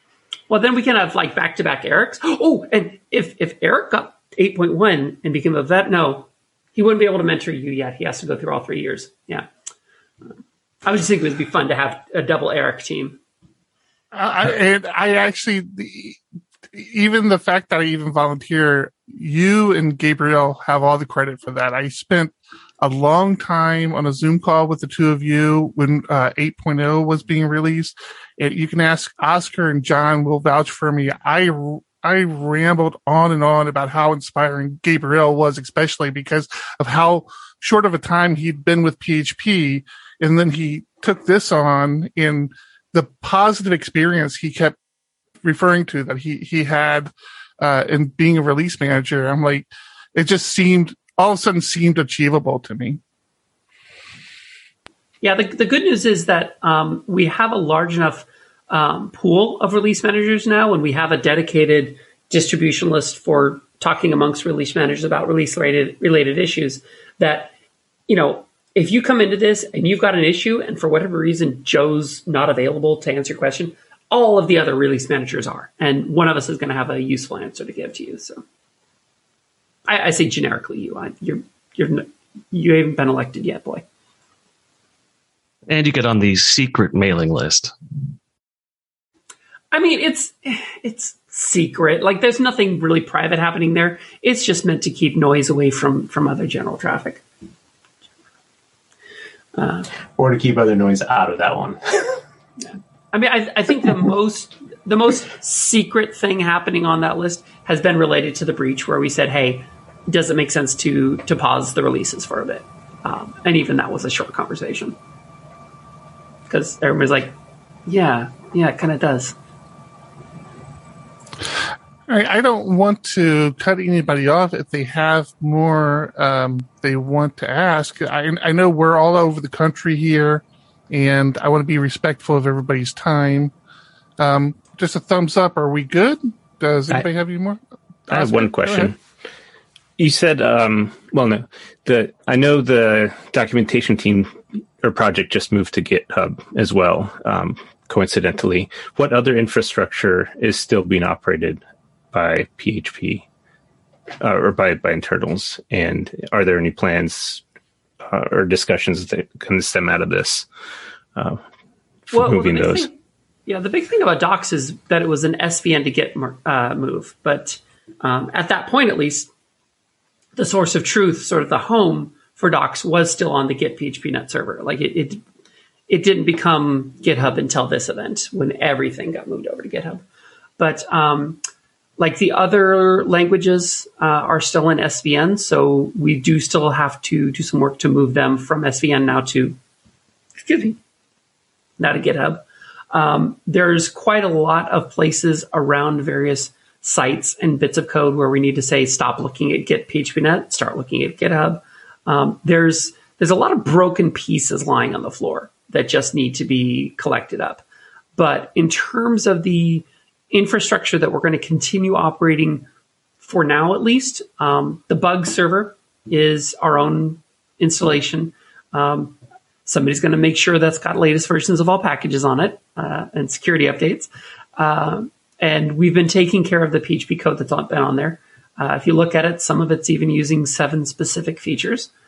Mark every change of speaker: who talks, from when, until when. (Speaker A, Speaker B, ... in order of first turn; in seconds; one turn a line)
Speaker A: 0.5-9.5
Speaker A: 10.8-13.2
Speaker B: 14.1-16.2
Speaker B: 16.7-44.8
Speaker B: 45.4-53.0
Speaker A: 55.2-67.5
Speaker A: 68.1-78.4
Speaker A: 79.9-83.8
Speaker C: 85.7-87.7
Speaker A: 89.7-97.2
Speaker A: 99.5-99.9
Speaker D: 100.2-102.2
Speaker A: 102.6-115.0
Speaker A: 116.5-117.3
Speaker A: 117.9-119.3
Speaker B: 122.1-133.5
Speaker B: 134.2-138.9
Speaker E: 138.1-139.0
Speaker E: 140.0-151.6
Speaker E: 152.1-153.3
Speaker E: 154.2-157.4
Speaker E: 158.1-160.5
Speaker E: 161.2-161.4
Speaker E: 162.1-162.9
Speaker A: 162.1-162.9
Speaker A: 163.5-169.3
Speaker A: 170.4-175.2
Speaker A: 175.9-180.0
Speaker A: 180.6-181.4
Speaker A: 182.0-189.6
Speaker A: 190.4-190.8
Speaker A: 191.8-207.6
Speaker A: 208.2-212.7
Speaker A: 213.2-231.9